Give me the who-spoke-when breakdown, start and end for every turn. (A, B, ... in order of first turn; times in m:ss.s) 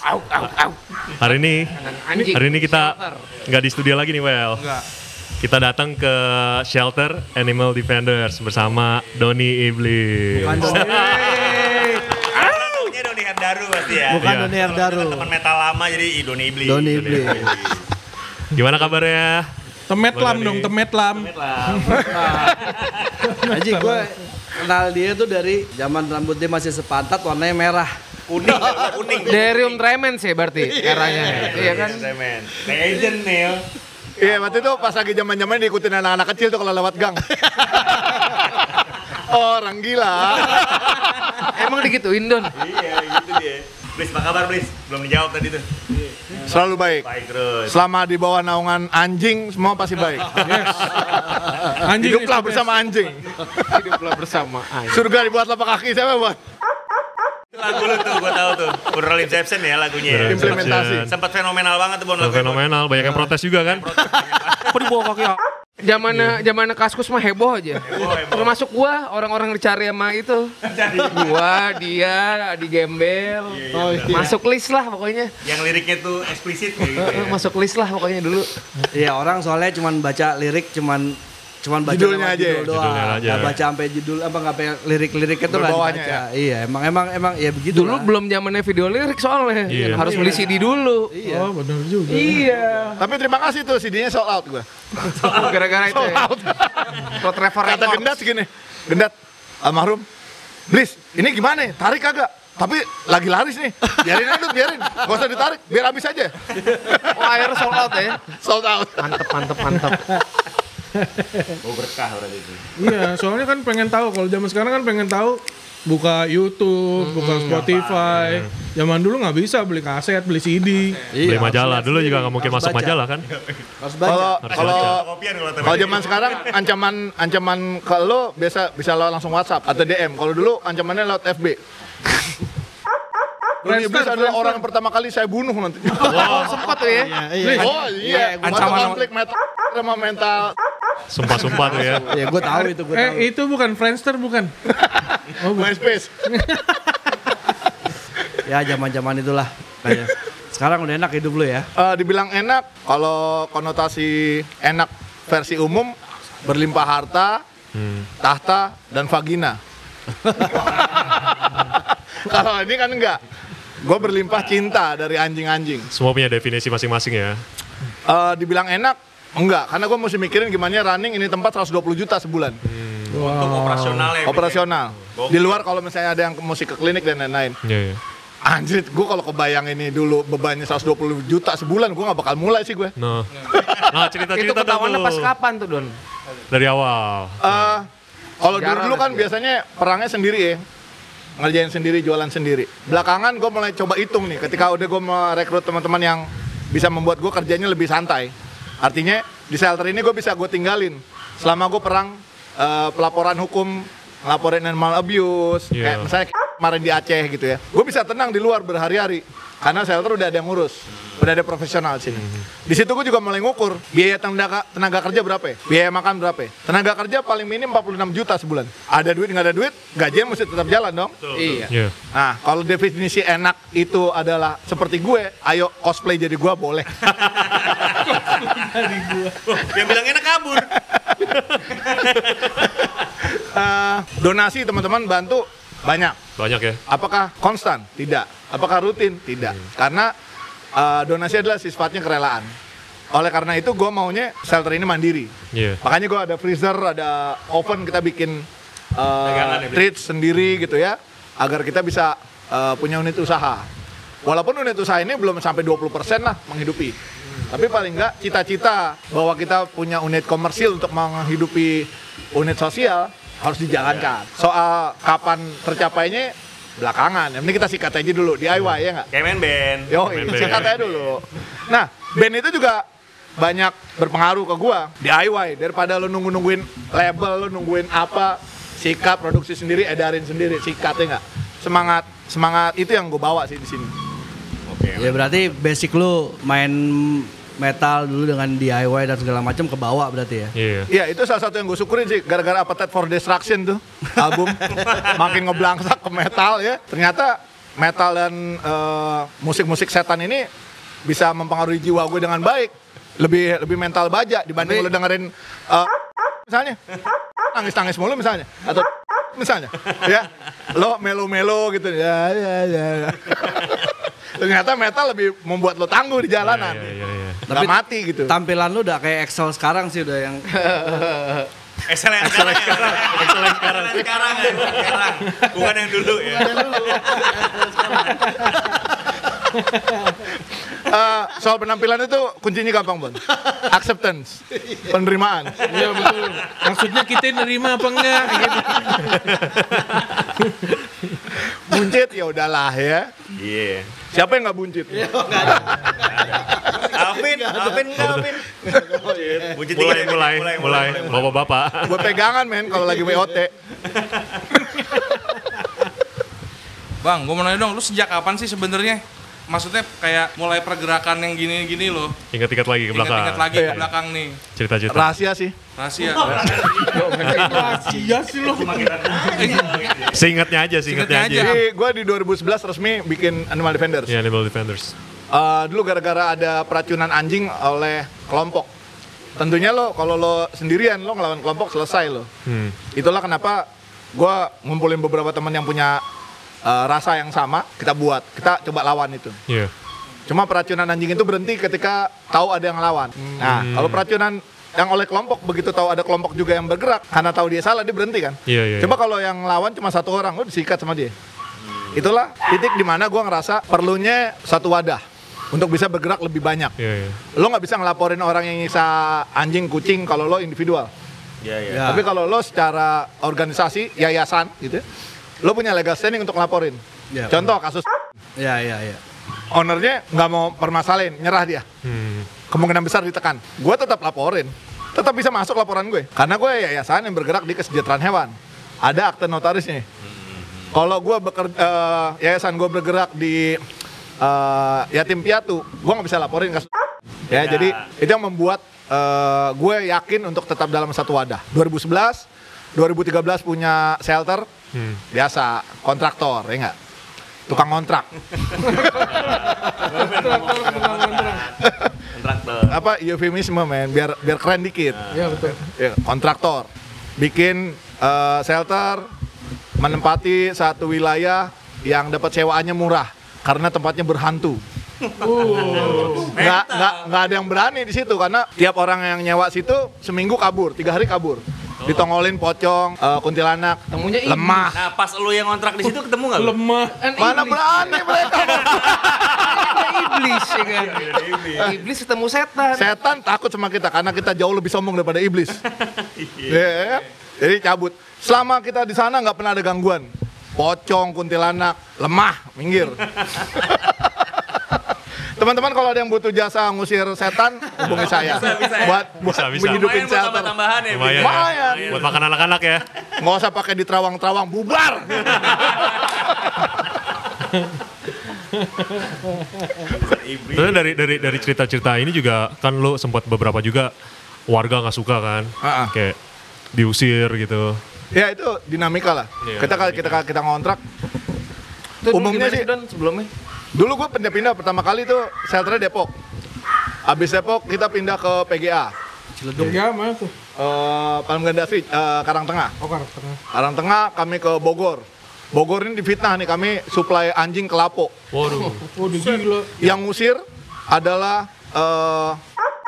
0:00.2-0:00.7 A
0:01.2-0:01.8 B
0:01.7-0:03.3 A
0:02.3-0:04.7 B
0:04.6-0:04.8 C
0:05.4-0:11.7 B
0:10.3-0:12.3 D
0:10.7-0:11.0 E
0:11.4-0:17.8 F
0:14.1-0:15.3 D
0:14.2-0:14.6 B
0:16.6-0:17.6 D
0:16.8-0:17.5 B
0:18.5-0:19.5 B
0:19.9-0:22.3 E
0:20.1-0:20.7 B
0:21.2-0:23.2 F
0:22.1-0:22.6 D
0:23.3-0:24.1 E
0:23.5-0:29.3 D
0:28.3-0:29.8 F
0:29.2-0:32.1 A
0:30.6-0:31.9 D
0:31.0-0:33.6 F
0:34.2-0:37.2 G
0:37.9-0:38.3 G
0:39.1-0:41.2 G
0:41.4-0:42.6 A
0:42.6-0:45.6 F
0:46.4-0:47.1 G
0:47.0-0:47.8 F
0:47.7-0:53.3 G
0:50.4-0:51.2 E
0:51.8-0:52.7 E
0:53.6-0:55.0 A
0:54.9-0:56.4 G
0:57.5-1:02.6 F
1:00.0-1:01.1 B
1:00.2-1:01.1 G
1:02.2-1:04.0 B
1:03.0-1:03.3 D
1:03.7-1:04.8 F
1:04.7-1:05.4 C
1:05.8-1:10.5 A
1:06.1-1:06.4 B
1:07.9-1:08.6 F
1:10.6-1:11.6 F
1:11.0-1:15.3 A
1:13.5-1:14.4 F
1:13.7-1:14.3 D
1:15.4-1:17.5 F
1:16.8-1:18.5 A
1:18.9-1:28.1 D
1:21.8-1:22.7 G
1:22.7-1:23.6 B
1:25.5-1:26.2 G
1:27.7-1:31.1 A
1:29.7-1:30.3 B
1:29.7-1:31.5 D
1:31.2-1:32.5 E
1:32.1-1:33.0 A
1:33.0-1:35.1 G
1:35.1-1:38.1 A
1:35.1-1:35.7 F
1:35.8-1:40.0 G
1:40.7-1:47.4 G
1:47.1-1:48.2 A
1:48.3-1:49.2 G
1:49.0-1:50.0 A
1:49.9-1:50.2 E
1:51.0-1:51.6 E
1:51.6-1:52.7 F
1:52.8-2:01.0 E
1:57.0-1:57.7 A
1:57.6-1:58.2 F
1:58.1-1:58.5 B
2:01.1-2:03.0 D
2:01.2-2:03.3 B
2:03.3-2:03.6 F
2:03.8-2:04.4 D
2:04.0-2:05.0 G
2:04.4-2:05.0 B
2:04.5-2:06.5 F
2:05.6-2:11.6 G
2:13.6-2:16.6 G
2:13.6-2:14.6 E
2:16.0-2:17.2 A
2:16.1-2:19.0 D
2:17.4-2:17.7 E
2:17.6-2:20.6 G
2:18.4-2:19.0 C
2:21.1-2:22.1 B
2:21.7-2:22.1 A
2:22.1-2:23.3 D
2:22.4-2:24.5 E
2:24.8-2:26.1 G
2:25.4-2:25.8 E
2:26.3-2:26.7 E
2:28.4-2:31.7 D
2:31.8-2:37.4 G
2:37.7-2:38.1 B
2:38.2-2:39.6 G
2:40.4-2:43.2 G
2:43.8-2:45.9 G
2:45.9-2:47.4 B
2:48.1-2:52.6 G
2:52.7-2:53.2 B
2:53.1-2:54.2 E
2:53.1-2:55.6 F
2:54.2-2:57.6 G
2:57.6-2:58.0 B
2:58.5-3:02.9 G
3:03.0-3:05.3 B
3:03.5-3:04.1 G
3:04.3-3:06.0 A
3:06.5-3:07.6 B
3:07.4-3:07.9 G
3:08.4-3:10.6 G
3:08.5-3:09.3 A
3:11.4-3:41.2 G
3:25.7-3:26.1 B
3:41.3-3:41.7 A
3:41.7-3:41.9 B
3:42.1-3:47.5 G
3:47.3-3:48.1 F
3:48.0-3:49.4 E
3:49.4-3:50.7 F
3:50.9-3:51.3 G
3:51.7-3:52.7 F
3:53.3-3:56.2 G
3:56.4-3:56.8 B
3:56.9-4:00.1 G
4:00.8-4:02.5 G
4:03.1-4:13.7 G
4:05.5-4:05.8 B
4:09.2-4:09.9 F
4:14.2-4:17.0 G
4:17.5-4:29.1 G
4:23.8-4:24.1 F
4:29.1-4:30.8 F
4:29.9-4:32.8 G
4:30.0-4:30.8 B
4:33.4-4:43.9 G
4:44.7-4:45.6 F
4:45.0-4:50.5 D
4:50.6-4:50.9 B
4:50.9-5:00.5 G
4:54.8-4:55.1 F
5:01.0-5:05.9 G
5:06.4-5:06.8 G
5:07.4-5:17.0 G
5:16.4-5:17.4 B
5:17.5-5:18.4 G
5:17.5-5:20.4 D
5:20.5-5:21.5 A
5:21.9-5:28.8 F
5:22.2-5:24.8 B
5:22.3-5:22.8 G
5:26.5-5:26.9 E
5:27.2-5:27.6 D
5:30.8-5:35.7 G
5:35.7-5:39.2 E
5:39.2-5:40.0 B
5:41.5-5:43.1 G
5:43.3-5:43.9 F
5:44.1-5:45.9 G
5:44.9-5:49.6 D
5:46.0-5:48.5 F
5:49.5-5:51.5 F
5:49.7-5:52.1 B
5:51.8-5:53.5 G
5:53.9-5:54.4 F
5:54.7-5:55.0 G
5:57.0-6:02.2 C
6:02.3-6:03.9 B
6:02.9-6:04.4 C
6:04.6-6:05.1 B
6:04.9-6:05.6 G
6:05.8-6:06.8 C
6:06.0-6:07.6 F
6:06.3-6:06.7 B
6:06.8-6:08.1 A
6:07.2-6:07.5 B
6:07.3-6:09.7 E
6:08.4-6:10.2 F
6:09.3-6:09.8 C
6:10.0-6:11.6 B
6:10.8-6:11.6 C
6:11.4-6:14.1 G
6:14.1-6:14.9 B
6:15.3-6:18.7 G
6:19.4-6:22.3 G
6:22.5-6:22.8 B
6:22.9-6:26.0 G
6:26.6-6:29.4 G
6:30.3-6:41.1 G
6:33.4-6:34.0 B
6:38.5-6:38.9 B
6:41.6-6:42.0 F
6:41.9-6:46.7 G
6:46.8-6:47.2 B
6:47.4-6:50.9 G
6:51.4-6:52.0 F
6:51.7-6:52.0 D
6:51.8-6:54.8 G
6:55.4-6:57.9 G
6:58.4-6:59.0 D
6:59.5-7:01.7 G
7:01.8-7:02.3 B
7:02.5-7:09.8 G
7:10.2-7:10.7 F
7:10.7-7:13.6 G
7:14.2-7:16.7 G
7:17.3-7:24.5 G
7:17.3-7:17.9 F
7:24.7-7:25.0 B
7:25.1-7:26.8 G
7:27.5-7:28.1 G
7:28.5-7:32.8 F
7:28.8-7:31.5 E
7:31.6-7:31.9 G
7:32.7-7:35.0 G
7:34.9-7:35.4 F
7:35.1-7:35.7 E
7:35.8-7:39.1 G
7:39.8-7:44.6 G
7:45.0-7:47.1 F
7:45.2-7:46.3 E
7:45.5-7:46.3 B
7:45.9-7:54.8 G
7:53.9-7:54.7 A
7:54.7-7:56.6 F
7:56.4-7:57.0 E
7:57.0-7:58.2 A
7:57.2-8:00.0 G
7:59.3-8:02.9 A
8:00.6-8:01.8 F
8:02.7-8:05.6 G
8:05.8-8:06.7 F
8:06.5-8:14.8 G
8:15.4-8:20.5 G
8:17.9-8:19.1 F
8:19.2-8:19.9 B
8:19.6-8:22.2 F
8:20.9-8:22.8 B
8:21.1-8:22.2 G
8:23.2-8:25.7 G
8:29.9-8:31.5 F
8:30.5-8:33.9 B
8:34.5-8:36.2 B
8:35.6-8:35.9 G
8:36.7-8:37.8 B
8:38.1-8:40.8 G
8:39.4-8:40.2 B
8:42.0-8:43.3 A
8:42.1-8:42.7 G
8:43.7-8:46.1 G
8:47.1-8:48.9 G
8:49.4-8:49.8 D
8:49.6-8:50.3 E
8:50.6-8:52.7 G
8:52.8-8:53.4 E
8:53.5-8:58.1 G
8:58.3-8:58.9 B
8:58.9-8:59.7 E
8:59.8-9:02.4 G